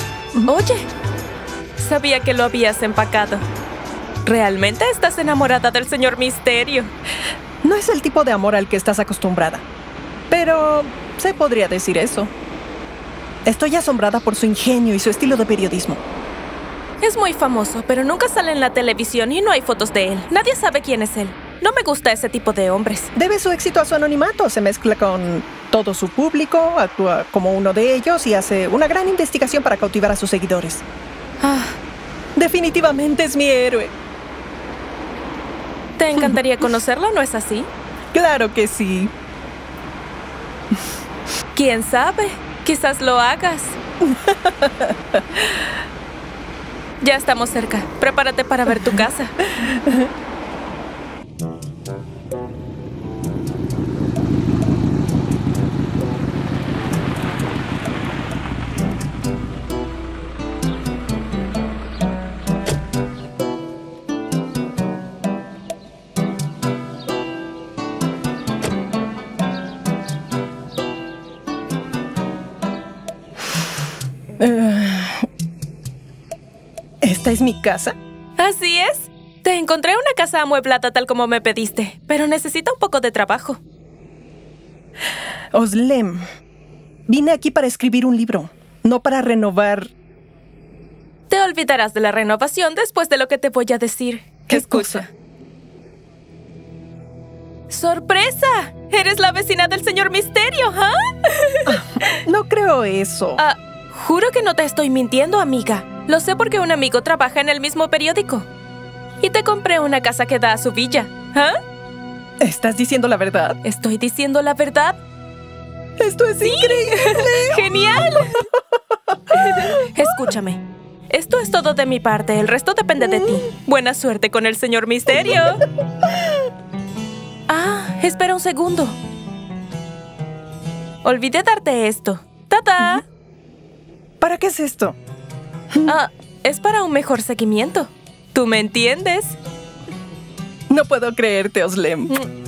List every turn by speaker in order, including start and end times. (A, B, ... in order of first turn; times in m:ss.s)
0:00.4-0:00.9 A
0:01.8-0:03.4 A
0:04.2-0:06.9 A
0:07.6-0:09.6 B
0:10.3-0:12.3 B
0:13.4-0:16.0 B
0:17.0-0:23.1 A
0:23.1-0:30.8 B
0:31.4-0:31.8 A
0:32.4-0:33.9 B
0:36.0-0:37.7 A
0:38.1-0:39.1 B
0:41.5-0:43.8 A
0:44.1-0:45.4 B
0:47.0-0:49.4 A
0:49.5-0:50.1 B
1:14.4-1:15.3 B
1:17.0-1:17.9 B
1:18.4-1:23.6 A
1:25.5-1:26.2 B
1:27.1-1:29.9 B
1:31.3-1:35.1 A
1:34.5-1:35.0 B
1:37.7-1:42.2 A
1:41.6-1:43.4 B
1:43.4-1:48.4 A
1:49.2-1:51.6 A
1:52.4-1:53.6 B
1:53.6-1:55.0 A
1:56.0-1:58.2 B
1:56.4-1:58.4 A
1:59.1-2:00.3 B
1:59.3-2:05.6 A
2:03.0-2:03.4 B
2:06.0-2:06.3 B
2:07.5-2:09.0 A
2:11.0-2:13.0 A
2:14.2-2:15.0 B
2:15.7-2:16.0 B
2:15.8-2:19.4 A
2:20.7-2:22.2 B